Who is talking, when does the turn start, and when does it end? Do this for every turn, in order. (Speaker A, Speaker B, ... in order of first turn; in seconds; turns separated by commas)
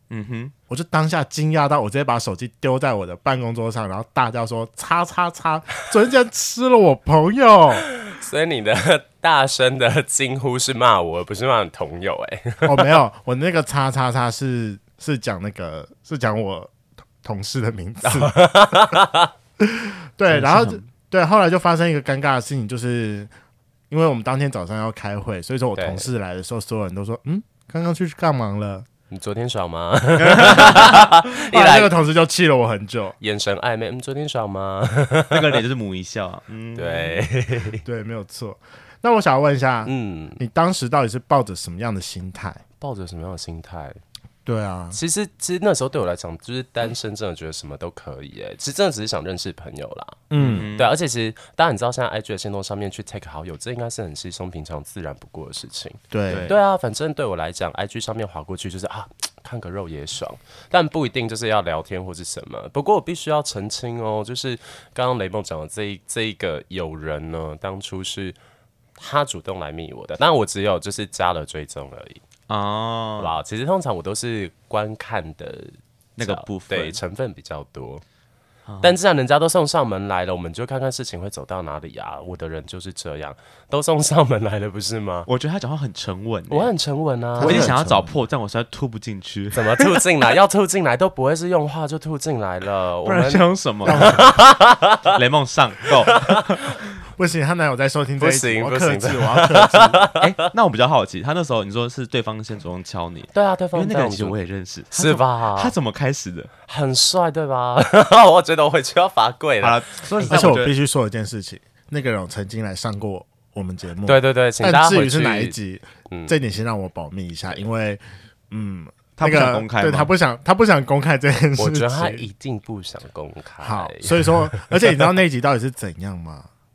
Speaker A: 0.1-0.5, Speaker B: 0.7-7.9, Speaker C: 8.0-12.9, Speaker B: 12.7-18.4, Speaker C: 18.1-19.3, Speaker B: 19.6-23.3, Speaker A: 20.3-20.8, Speaker B: 23.9-28.9, Speaker C: 25.8-26.1, Speaker C: 29.1-31.9, Speaker A: 30.2-31.0, Speaker B: 31.3-33.2, Speaker C: 33.2-35.6, Speaker A: 35.3-37.3, Speaker C: 36.8-37.8, Speaker B: 37.9-42.6, Speaker C: 39.8-40.4, Speaker C: 42.8-44.0, Speaker B: 44.5-45.0, Speaker C: 44.9-68.4, Speaker B: 50.3-50.7, Speaker A: 50.4-50.9, Speaker B: 56.1-56.5, Speaker A: 56.3-56.6, Speaker C: 69.0-72.2, Speaker A: 72.5-73.3, Speaker C: 73.2-78.0, Speaker A: 76.2-77.0, Speaker A: 78.7-79.0, Speaker C: 78.8-85.3, Speaker A: 85.3-86.7, Speaker C: 86.5-87.7, Speaker B: 87.4-88.1, Speaker A: 87.4-90.0, Speaker C: 89.5-95.1, Speaker A: 93.0-94.3, Speaker B: 93.8-94.3, Speaker A: 95.1-96.6, Speaker C: 96.1-96.4, Speaker B: 97.2-100.1, Speaker C: 98.2-100.3, Speaker A: 100.2-106.5, Speaker C: 103.3-104.3, Speaker C: 104.9-105.7, Speaker C: 106.7-110.4, Speaker A: 109.6-110.7, Speaker B: 110.3-122.3, Speaker C: 114.1-115.5, Speaker A: 119.2-120.1, Speaker C: 121.6-125.1, Speaker B: 123.6-126.5